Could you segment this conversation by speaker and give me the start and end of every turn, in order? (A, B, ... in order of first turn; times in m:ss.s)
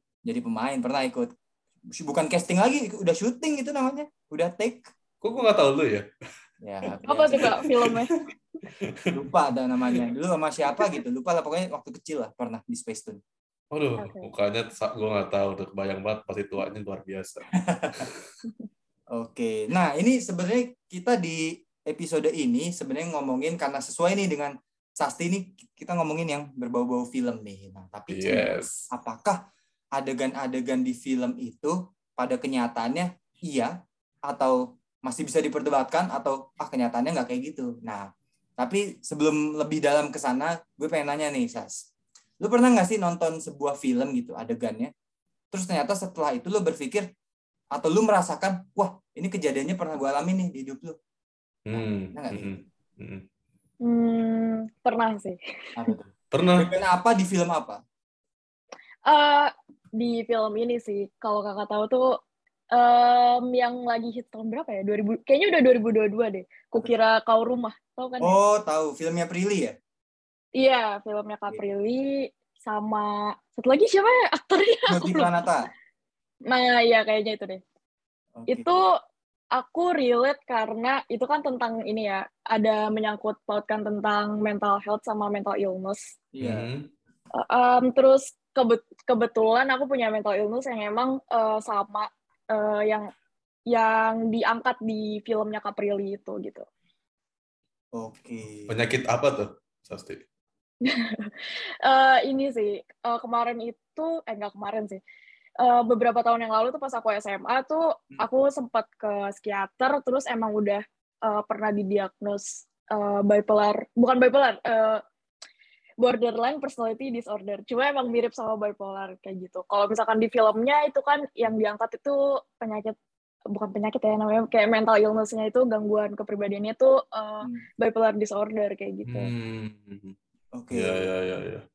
0:00.2-0:01.3 A
0:01.9-0:04.9 A
0:05.2-0:06.0 B
0:06.6-0:07.6 A
0:07.0-0:08.1 C
0:07.4-0:07.9 B
0:08.7-0:09.2 B
0:09.1-0:13.2 A
0:13.7-0:18.1 B
0:14.0-0:14.3 C
0:17.5-0:18.1 A
0:19.1-0:29.4 A
0:28.1-0:28.9 B
0:29.9-0:33.7 A
0:34.3-0:38.1 A
0:38.6-0:41.8 A
0:42.4-0:44.9 A
0:45.5-0:47.1 A
0:47.7-0:51.0 A
0:51.6-0:53.2 B
0:51.7-0:52.5 A
0:53.8-0:55.9 C
0:55.8-0:57.8 A
0:56.3-0:56.7 B
0:59.1-1:02.2 C
1:02.7-1:08.3 C
1:08.2-1:09.8 A
1:10.6-1:15.3 C
1:14.9-1:15.7 A
1:16.5-1:17.6 C
1:18.3-1:18.8 A
1:18.5-1:18.9 C
1:19.5-1:26.2 C
1:26.3-1:26.7 A
1:26.4-1:26.9 B
1:27.4-1:33.1 C
1:33.7-1:36.6 C
1:37.9-1:38.8 A
1:38.7-1:40.2 B
1:40.8-1:41.3 C
1:41.8-1:45.0 C
1:45.6-1:55.0 C
1:56.0-2:03.0 C
2:03.5-2:09.3 C
2:09.1-2:10.2 B
2:10.5-2:11.1 A
2:10.7-2:11.6 B